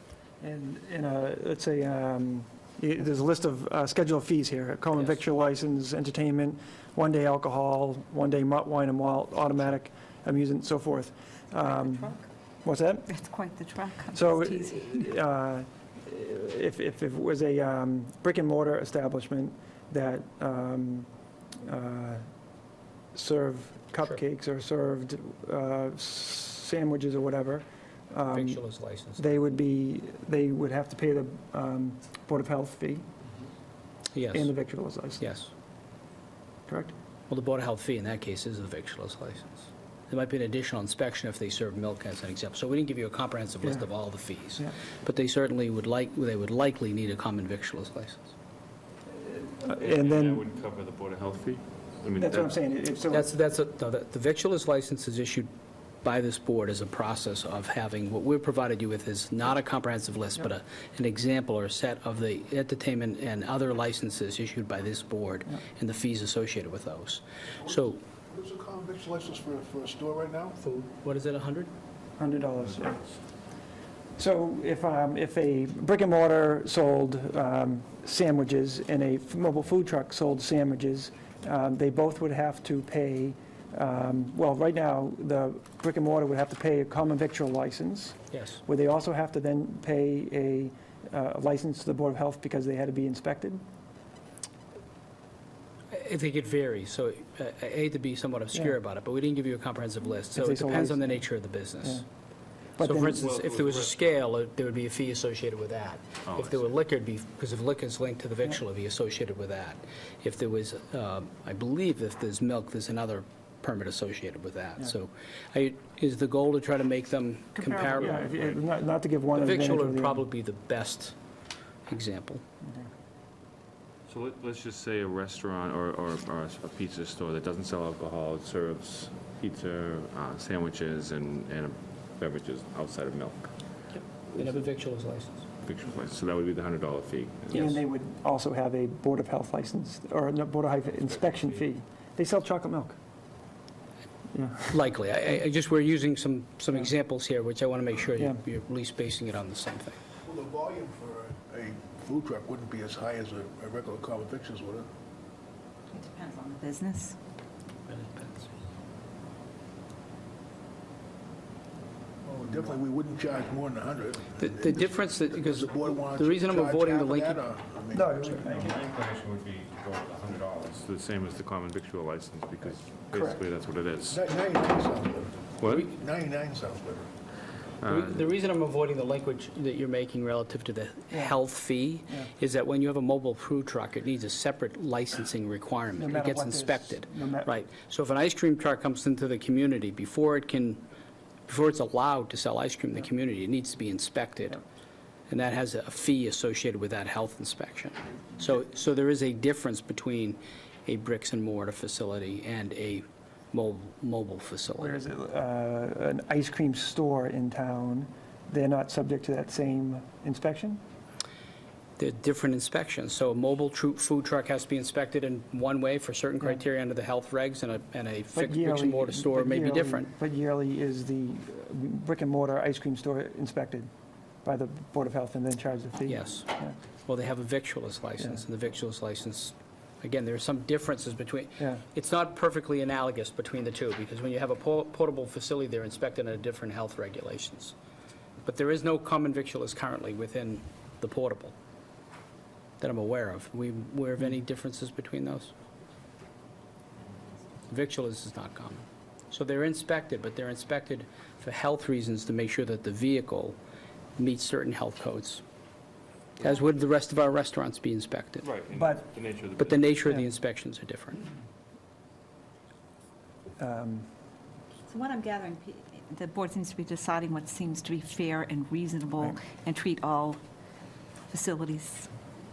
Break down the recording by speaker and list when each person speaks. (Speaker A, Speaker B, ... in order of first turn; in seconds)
Speaker A: 0.4-13.1, 14.1-21.1, 21.6-22.2, 23.1-28.6, 29.2-33.0, 34.3-35.3, 36.7-36.9, 49.6-50.5, 52.2-53.3, 72.2-73.2, 74.2-93.6, 100.3-101.2, 102.8-103.3, 117.9-120.2, 137.5-143.0, 144.3-144.8, 167.9-168.8, 173.1-173.4, 181.1-181.4, 186.0-187.6, 204.8-210.8, 218.3-223.9, 224.4-226.8, 258.7-259.1, 263.6-264.1
Speaker B: 11.6-12.2, 13.1-15.1, 155.9-157.2, 264.9-270.4, 271.3-272.1
Speaker C: 28.3-29.4, 34.1-34.5, 35.2-35.5, 37.3-48.3, 53.1-55.5, 56.0-68.0, 70.6-71.7, 88.3-88.6, 95.9-102.0, 102.8-118.3, 119.4-121.2, 121.9-122.4, 133.9-135.4, 144.7-150.0, 157.9-158.5, 164.4-167.4, 177.8-190.8, 191.5-194.6, 195.3-205.0, 212.0-220.1, 226.1-226.5, 227.1-237.7, 238.4-241.5, 242.8-245.5, 247.7-253.6, 254.2-255.4, 256.4-258.5, 259.6-261.2
Speaker D: 49.7-52.5, 103.2-103.9, 106.3-106.7, 117.9-118.5, 124.1-133.5, 135.6-137.8, 168.4-174.3, 175.6-175.9, 177.8-178.3, 258.4-259.9
Speaker E: 67.6-70.6, 150.2-154.9, 162.2-168.3, 174.1-177.1